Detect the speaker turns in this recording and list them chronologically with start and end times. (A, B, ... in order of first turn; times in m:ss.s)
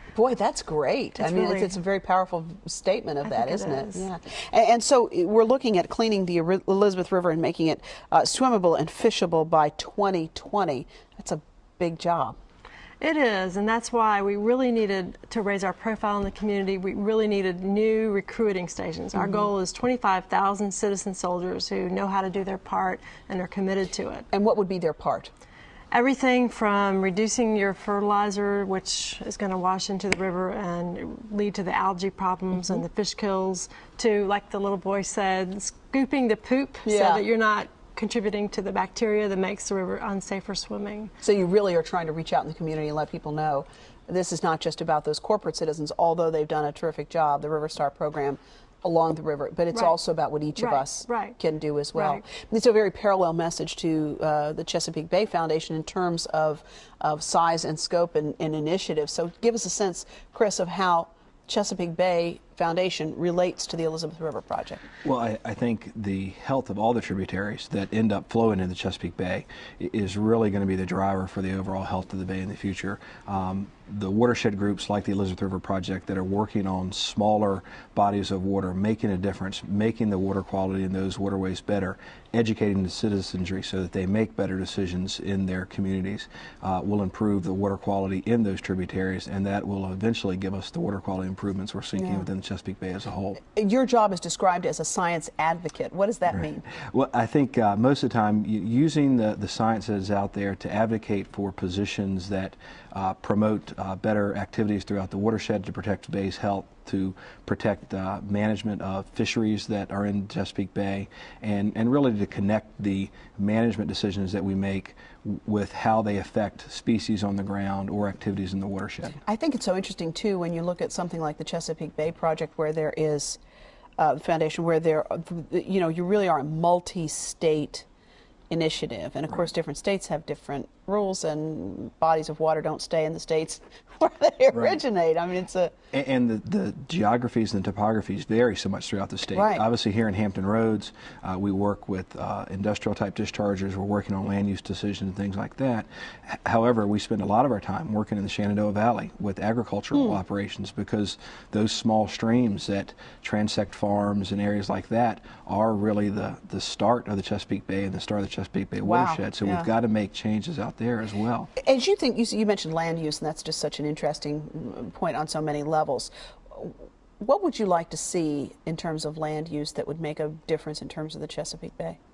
0:00.2-0:12.4 A
0:01.2-0:01.8 B
0:03.2-0:04.1 B
0:13.0-0:24.3 B
0:19.1-0:19.5 A
0:24.3-0:25.3 A
0:25.9-0:41.1 B
0:32.6-0:32.8 A
0:36.8-0:37.2 A
0:41.2-1:04.8 A
0:50.6-0:51.4 B
0:52.0-0:52.2 B
1:05.0-1:33.4 C
1:32.0-1:32.3 A
1:33.4-1:36.7 A
1:36.3-1:59.2 C
1:59.3-2:03.4 A
2:04.0-2:07.9 A
2:08.5-2:15.7 A
2:14.5-2:14.8 C
2:15.9-2:41.5 C
2:19.3-2:19.6 A
2:29.9-2:30.2 A
2:38.8-2:39.7 A
2:41.6-2:52.0 A